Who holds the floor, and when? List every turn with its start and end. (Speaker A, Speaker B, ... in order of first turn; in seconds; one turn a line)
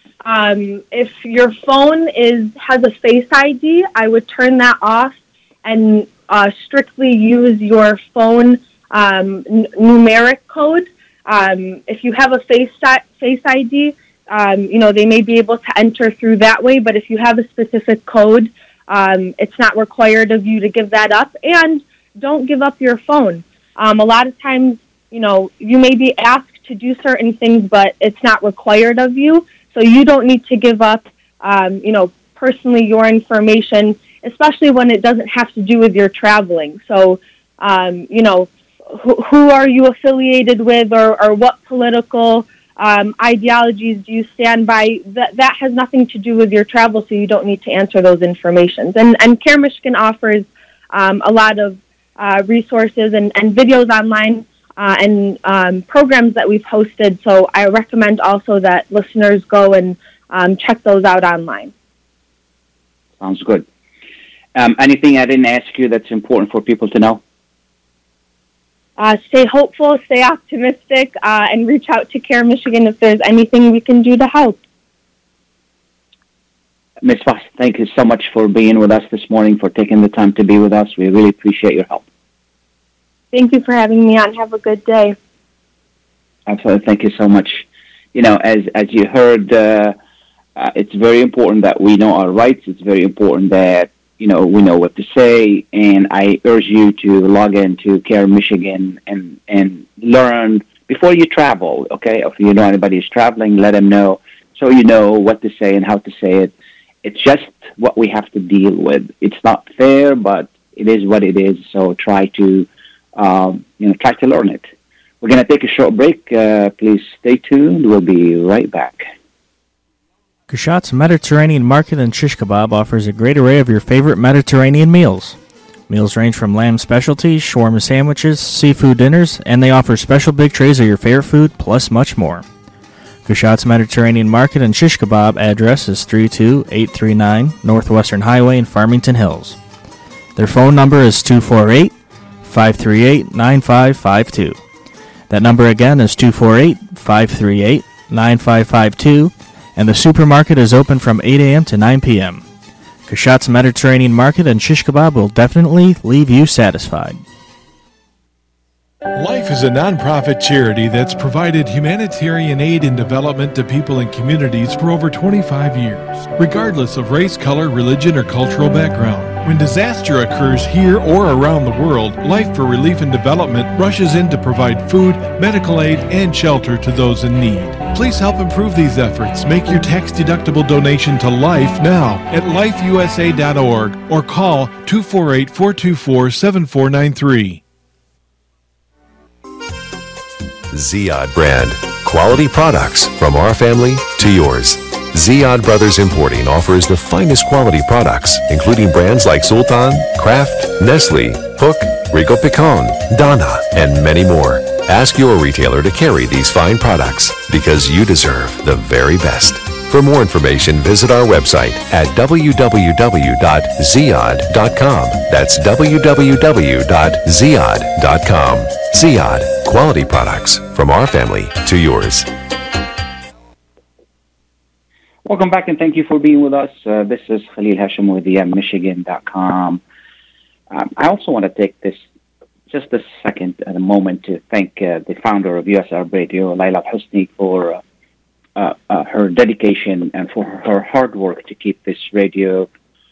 Speaker A: 0.2-61.7
Speaker B: 63.2-63.7
Speaker B: 64.5-67.2
Speaker A: 69.0-74.6
Speaker B: 77.0-82.0
Speaker A: 83.3-85.2
Speaker B: 86.5-90.0
Speaker B: 90.5-106.5
Speaker B: 107.0-114.7
Speaker B: 115.2-119.1
Speaker C: 120.5-125.4
Speaker C: 125.9-132.4
Speaker C: 133.2-139.6
Speaker C: 140.3-144.6
Speaker C: 145.3-152.4
Speaker C: 153.1-157.2
Speaker D: 159.2-187.6
Speaker E: 190.7-222.3
Speaker B: 225.2-229.8
Speaker B: 230.7-232.0
Speaker B: 232.7-237.8
Speaker B: 238.6-242.7